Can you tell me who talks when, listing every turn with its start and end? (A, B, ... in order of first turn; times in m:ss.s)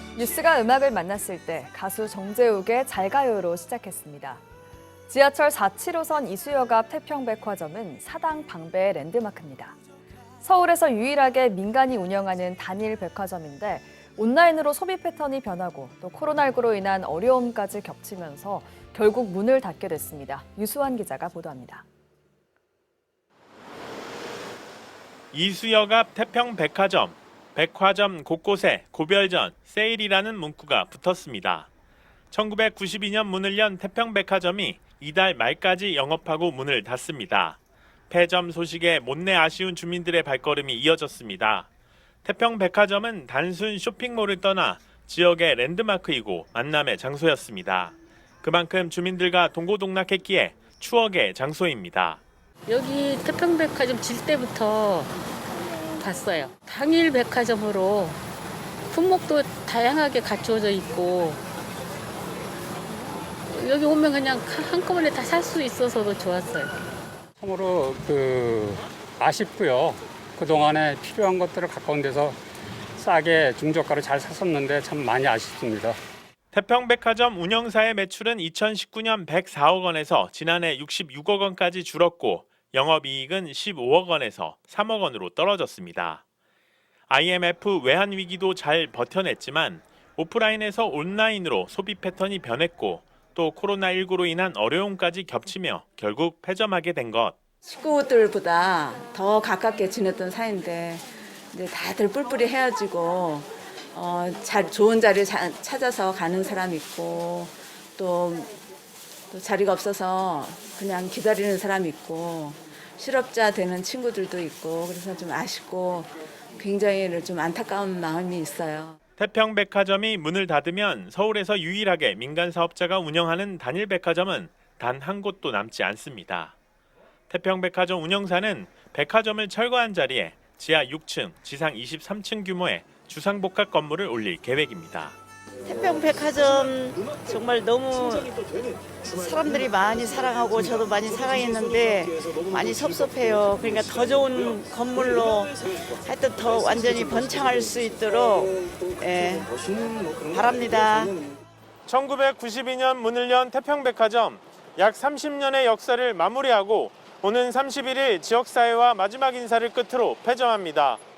0:00.2-0:04.4 A
0:05.1-0:09.8 A
0:10.4-0:21.8 A
0:25.3-0:31.7 B
0:32.3-0:37.6 B
0:38.1-0:41.7 B
0:42.2-0:52.2 B
0:52.7-0:55.1 C
0:56.0-0:58.2 C
0:58.9-1:01.4 C
1:03.5-1:06.7 C
1:07.4-1:12.4 D
1:13.0-1:16.0 D
1:16.5-1:26.2 B
1:27.1-1:37.4 B
1:37.6-1:48.5 E
1:49.3-1:59.0 E
1:59.2-2:06.5 B
2:07.3-2:15.2 B
2:15.6-2:18.4 F
2:19.0-2:29.5 F
2:30.2-2:31.2 F
2:31.9-2:41.0 B